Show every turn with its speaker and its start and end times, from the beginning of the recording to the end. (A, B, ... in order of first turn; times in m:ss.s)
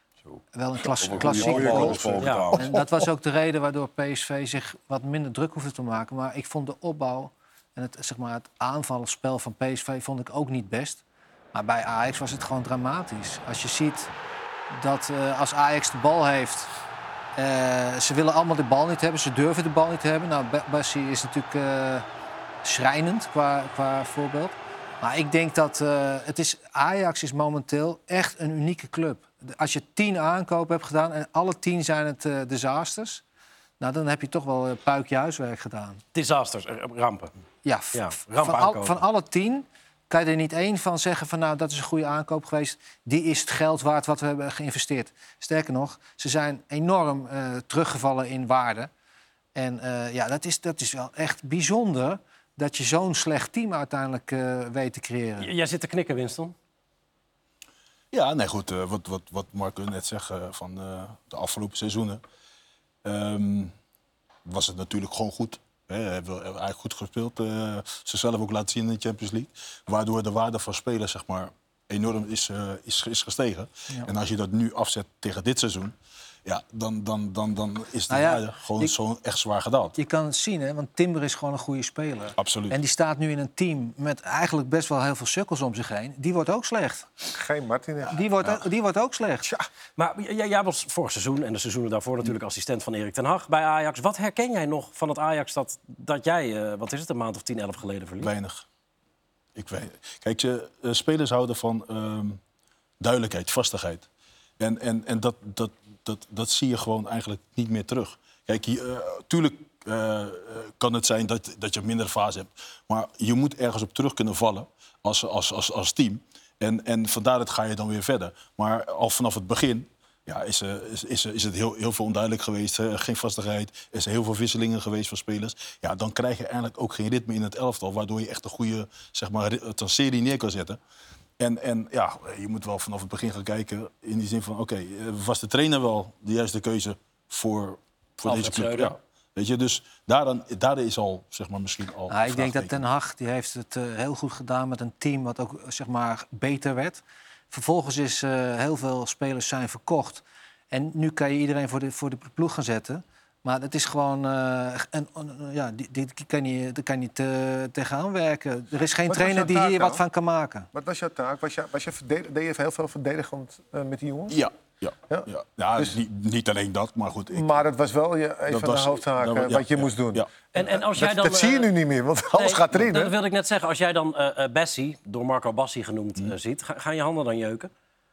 0:00.3-0:02.9 A
0:00.5-0:11.0 B
0:01.3-0:02.2 C
0:02.2-0:02.5 D
0:11.5-0:14.1 B
0:14.7-0:16.7 B
0:17.4-0:22.0 B
0:22.6-0:33.2 B
0:33.8-0:36.0 B
0:36.1-0:37.3 D
0:37.6-0:48.9 B
0:37.9-0:39.0 D
0:49.5-0:55.5 B
0:55.4-0:56.5 D
0:58.1-1:02.2 C
1:03.0-1:03.7 C
1:04.4-1:20.0 C
1:18.1-1:18.9 B
1:20.0-1:27.1 B
1:22.4-1:22.8 C
1:27.3-1:28.3 E
1:28.1-1:29.5 B
1:30.0-1:38.3 D
1:38.2-1:38.6 C
1:39.5-1:42.4 C
1:43.0-1:44.1 C
1:44.6-2:10.8 C
2:11.4-2:22.8 C
2:18.2-2:18.9 D
2:22.1-2:40.7 B
2:39.0-2:40.0 E
2:40.7-2:44.4 E
2:44.3-2:47.6 C
2:45.1-2:46.0 E
2:47.3-2:53.2 E
2:48.5-2:50.3 C
2:50.5-2:51.7 D
2:52.3-2:57.7 D